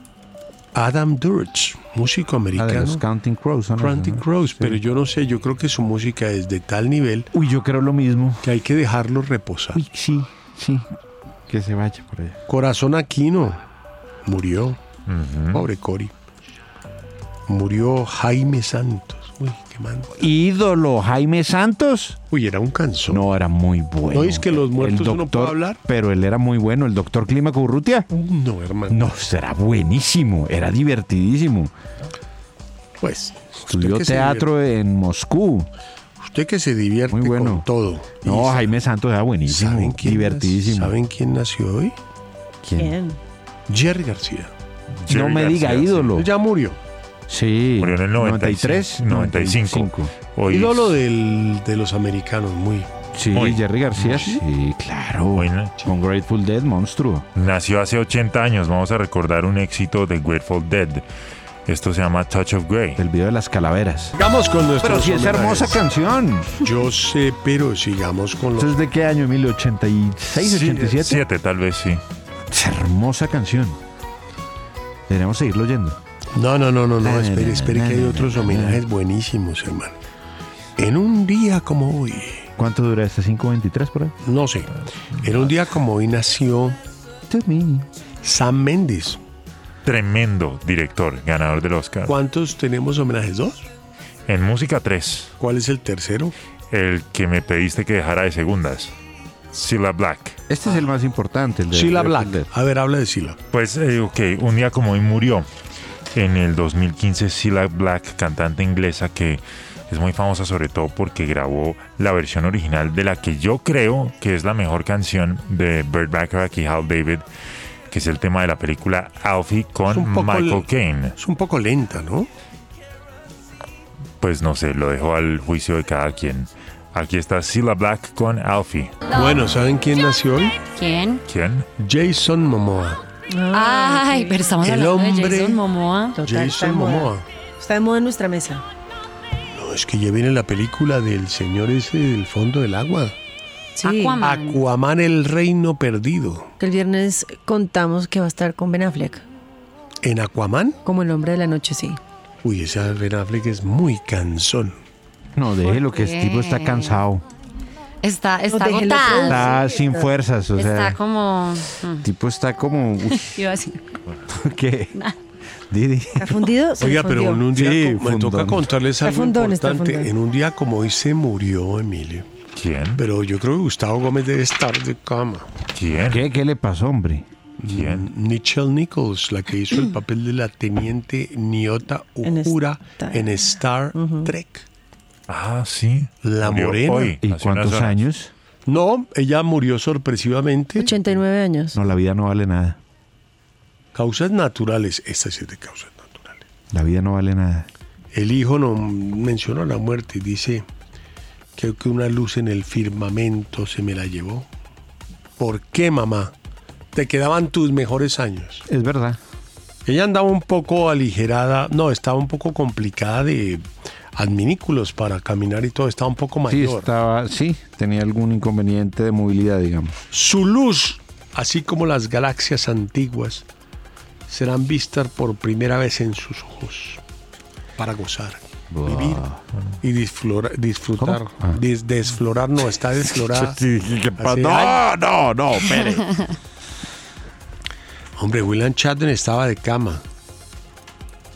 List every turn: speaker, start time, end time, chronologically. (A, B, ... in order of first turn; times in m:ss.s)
0:00.7-0:03.0 A
0:02.5-0:04.8 B
0:03.8-0:07.3 A
0:07.3-0:08.4 B
0:08.4-0:09.8 A
0:09.7-0:10.9 B
0:11.5-0:12.4 B
0:12.5-0:13.6 A
0:14.2-0:14.8 A
0:15.1-0:15.6 C
0:15.5-0:16.1 A
0:17.5-0:20.1 A
0:20.2-0:22.2 B
0:22.3-0:23.2 A
0:23.1-0:28.0 B
0:24.1-0:25.8 A
0:28.1-0:29.1 A
0:28.9-0:31.7 B
0:33.0-0:34.5 A
0:33.7-0:35.7 B
0:36.2-0:38.7 A
0:37.1-0:37.6 B
0:38.2-0:41.0 B
0:39.5-0:42.0 A
0:42.6-0:43.0 B
0:42.8-0:43.2 D
0:43.7-0:44.5 A
0:45.0-0:46.1 C
0:45.1-0:46.3 B
0:46.1-0:46.8 A
0:47.3-0:50.1 B
0:47.8-0:51.0 C
0:50.5-0:52.9 A
0:53.1-0:57.2 B
0:53.3-0:54.3 C
0:55.3-0:55.7 C
0:57.3-1:01.0 C
1:01.7-1:03.0 C
1:03.0-1:04.2 B
1:04.2-1:05.8 A
1:04.8-1:06.6 B
1:06.6-1:08.7 A
1:08.6-1:11.2 B
1:10.4-1:12.0 C
1:12.5-1:13.8 B
1:15.1-1:16.0 B
1:16.3-1:19.9 A
1:17.0-1:18.8 B
1:20.8-1:22.5 A
1:22.6-1:24.1 B
1:24.2-1:26.8 A
1:27.3-1:27.9 B
1:28.2-1:29.2 A
1:29.8-1:32.2 C
1:32.0-1:33.7 A
1:34.3-1:35.3 C
1:35.4-1:36.3 A
1:36.7-1:38.9 C
1:39.5-1:40.4 C
1:40.5-1:42.5 B
1:41.7-1:43.4 A
1:43.5-1:45.5 C
1:46.1-1:57.2 C
1:57.9-2:01.2 C
1:59.9-2:00.6 A
2:01.2-2:02.3 A
2:04.2-2:09.0 C
2:09.1-2:10.6 A
2:10.8-2:11.2 E
2:11.3-2:11.6 C
2:11.8-2:13.0 A
2:13.3-2:14.5 D
2:13.5-2:16.2 E
2:14.6-2:15.6 A
2:16.2-2:18.6 D
2:16.2-2:17.2 A
2:19.5-2:23.2 A
2:23.8-2:24.2 D
2:23.8-2:24.6 E
2:24.2-2:26.5 A
2:26.6-2:29.2 D
2:30.0-2:30.8 A
2:30.8-2:32.0 D
2:32.4-2:34.7 A
2:35.4-2:37.2 B
2:35.6-2:37.0 E
2:38.0-2:39.6 E
2:38.5-2:40.1 D
2:39.1-2:41.0 B
2:40.6-2:42.0 E
2:42.0-2:43.3 B
2:43.2-2:43.8 E
2:44.3-2:44.9 B
2:45.7-2:46.5 B
2:46.2-2:47.4 D
2:46.8-2:52.3 A
2:47.5-2:48.7 B
2:49.0-2:50.1 D
2:52.6-2:53.0 C
2:53.0-2:55.5 A
2:55.7-2:56.2 C
2:56.1-2:57.3 B
2:57.6-3:04.7 A
2:57.7-2:58.1 C
3:02.2-3:03.3 D
3:03.9-3:04.3 D
3:05.3-3:08.0 C
3:06.2-3:07.2 A
3:07.2-3:08.3 B
3:08.6-3:10.9 A
3:10.8-3:11.8 D
3:11.7-3:12.8 B
3:13.9-3:16.4 A
3:16.7-3:17.7 B
3:18.1-3:20.6 A
3:21.6-3:24.5 A
3:25.4-3:26.3 A
3:26.9-3:28.6 A
3:28.7-3:29.2 B
3:29.8-3:36.9 A
3:36.5-3:40.0 B
3:40.1-3:43.4 A
3:44.3-3:47.0 A
3:47.8-3:49.2 A
3:48.7-3:49.4 B
3:49.8-3:53.6 A
3:51.0-3:51.6 B
3:53.0-3:56.1 B
3:54.2-3:54.8 A
3:58.2-4:00.0 A